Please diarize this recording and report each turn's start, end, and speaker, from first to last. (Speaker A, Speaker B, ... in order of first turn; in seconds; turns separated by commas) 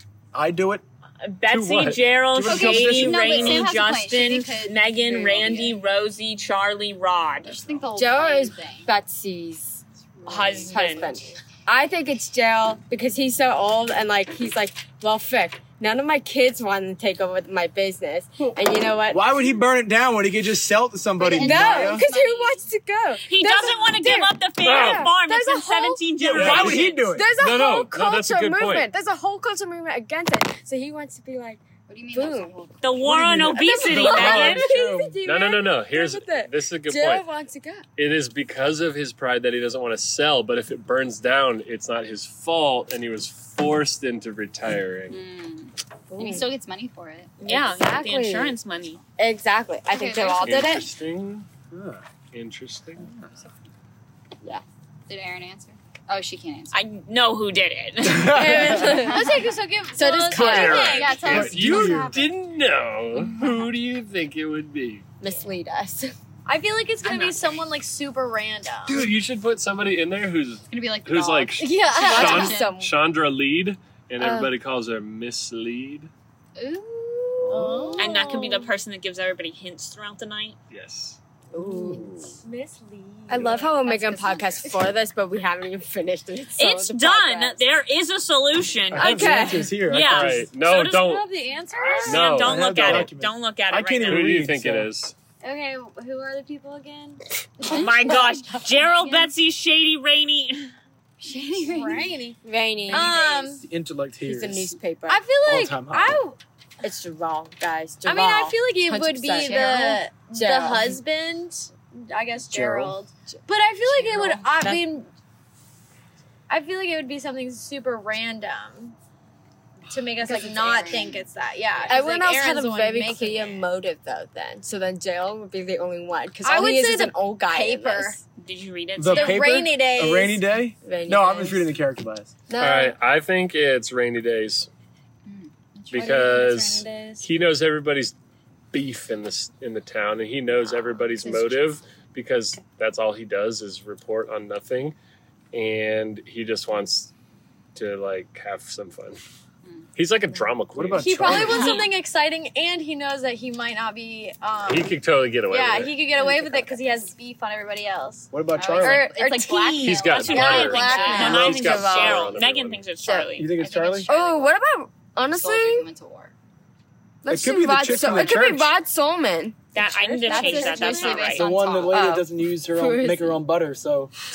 Speaker A: 0.3-0.8, Speaker B: 1.2-7.6, Speaker C: 1.5-2.1, Speaker A: 2.4-3.5, Speaker D: 2.4-5.7, Speaker E: 3.3-3.7, Speaker D: 7.4-8.9, Speaker F: 7.9-9.8, Speaker B: 10.2-11.2, Speaker D: 10.2-10.8, Speaker F: 10.7-19.4, Speaker A: 19.1-22.1, Speaker F: 21.2-26.0, Speaker D: 21.2-22.6, Speaker B: 23.2-27.1, Speaker C: 24.6-25.1, Speaker C: 26.3-28.9, Speaker A: 26.3-27.3, Speaker F: 26.9-32.5, Speaker D: 31.9-33.6, Speaker B: 32.8-34.6, Speaker A: 33.1-35.2, Speaker F: 33.3-37.8, Speaker C: 35.2-37.3, Speaker C: 38.0-45.2, Speaker D: 45.1-47.4, Speaker F: 46.1-46.5, Speaker B: 47.4-49.0, Speaker F: 47.4-48.6, Speaker F: 49.2-50.9, Speaker D: 49.9-50.7, Speaker C: 50.4-51.5, Speaker A: 51.7-52.0, Speaker C: 52.3-53.1, Speaker A: 53.0-53.3, Speaker D: 55.1-56.8, Speaker B: 56.7-58.8, Speaker A: 58.0-58.8, Speaker F: 58.2-61.1, Speaker E: 58.9-62.3, Speaker C: 60.3-65.1, Speaker A: 61.2-62.2, Speaker F: 65.2-66.1, Speaker E: 66.5-69.1, Speaker D: 67.0-67.4, Speaker C: 68.9-76.1, Speaker D: 70.7-72.7, Speaker E: 71.6-72.6, Speaker F: 72.0-72.9, Speaker F: 74.2-74.5, Speaker D: 76.6-77.6, Speaker E: 77.4-78.7, Speaker C: 77.4-78.0, Speaker B: 78.0-80.6, Speaker C: 80.7-81.2, Speaker F: 81.5-82.3, Speaker E: 81.9-83.9, Speaker F: 83.3-87.6, Speaker D: 83.8-84.7, Speaker B: 86.6-90.9, Speaker A: 88.9-90.5, Speaker F: 89.0-89.8, Speaker C: 90.0-93.1, Speaker E: 90.7-92.4, Speaker B: 92.0-94.3, Speaker A: 92.3-94.9, Speaker C: 94.0-95.1, Speaker E: 95.4-97.2, Speaker F: 97.6-98.6, Speaker B: 97.7-100.7, Speaker D: 101.2-102.2, Speaker E: 101.5-103.7, Speaker F: 102.4-103.3, Speaker A: 103.4-104.8, Speaker F: 104.2-105.2, Speaker E: 105.1-106.4, Speaker A: 105.4-106.2, Speaker F: 106.8-111.0, Speaker E: 108.0-115.1, Speaker A: 112.5-113.0, Speaker D: 113.9-114.7, Speaker F: 114.0-114.8, Speaker E: 116.5-118.9, Speaker D: 119.9-122.1, Speaker E: 119.9-123.7, Speaker F: 121.9-128.2, Speaker E: 126.4-128.2, Speaker B: 128.4-129.6, Speaker A: 129.0-132.3, Speaker E: 129.1-130.4, Speaker F: 130.8-131.7, Speaker F: 132.5-132.9, Speaker C: 132.6-134.7, Speaker D: 135.2-136.7, Speaker C: 135.9-138.1, Speaker E: 135.9-137.3, Speaker C: 138.7-144.9, Speaker D: 141.2-141.8, Speaker C: 145.5-147.1, Speaker C: 147.7-149.2, Speaker C: 149.9-151.7, Speaker A: 150.7-151.7, Speaker E: 151.0-161.6, Speaker D: 151.6-151.9, Speaker C: 154.7-156.0, Speaker F: 156.3-156.7, Speaker A: 158.3-159.1, Speaker D: 158.6-161.5, Speaker C: 159.8-162.8, Speaker B: 160.1-163.5, Speaker F: 160.9-162.3, Speaker F: 163.0-163.3, Speaker A: 163.4-164.1, Speaker D: 163.5-164.5, Speaker F: 164.1-165.9, Speaker D: 165.3-166.3, Speaker F: 167.2-171.2, Speaker A: 167.3-168.8, Speaker B: 169.7-171.5, Speaker D: 170.2-172.0, Speaker E: 170.3-171.3, Speaker A: 171.3-174.1, Speaker F: 171.9-173.4